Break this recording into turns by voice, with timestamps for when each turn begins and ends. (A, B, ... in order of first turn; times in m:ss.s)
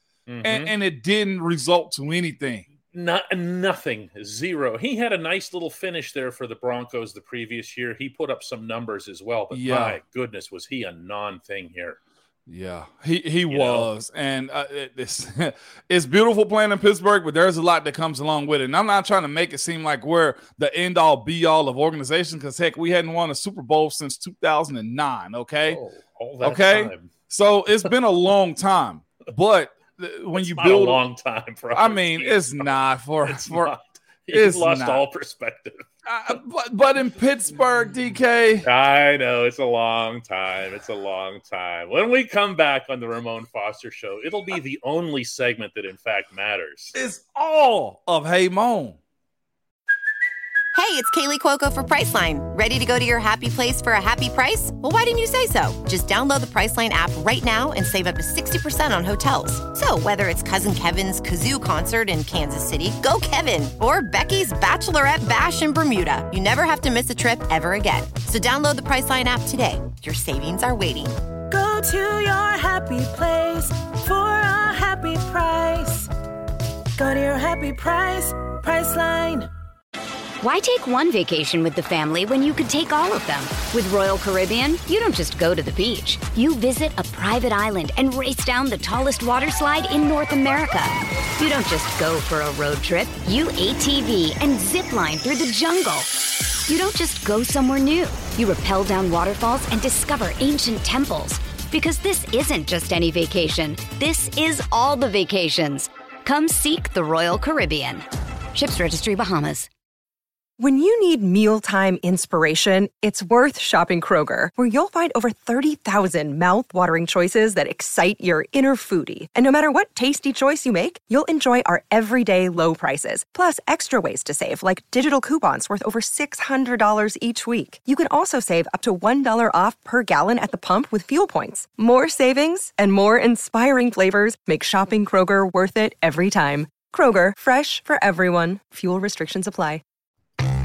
0:00.3-0:00.7 A
0:00.4-0:02.7 B
0:02.9-0:12.0 A
0:09.5-0:10.0 B
0:12.5-0:25.8 B
0:13.5-0:13.9 A
0:25.7-0:27.1 A
0:26.4-0:31.0 B
0:30.4-0:35.8 A
0:31.7-0:33.7 B
0:34.3-0:35.0 B
0:36.0-0:38.7 B
0:38.6-0:46.9 A
0:46.9-0:49.0 B
0:50.7-1:11.2 C
1:11.5-1:16.1 D
1:17.0-1:19.5 D
1:20.4-1:36.1 E
1:36.7-1:49.7 E
1:50.6-2:19.8 F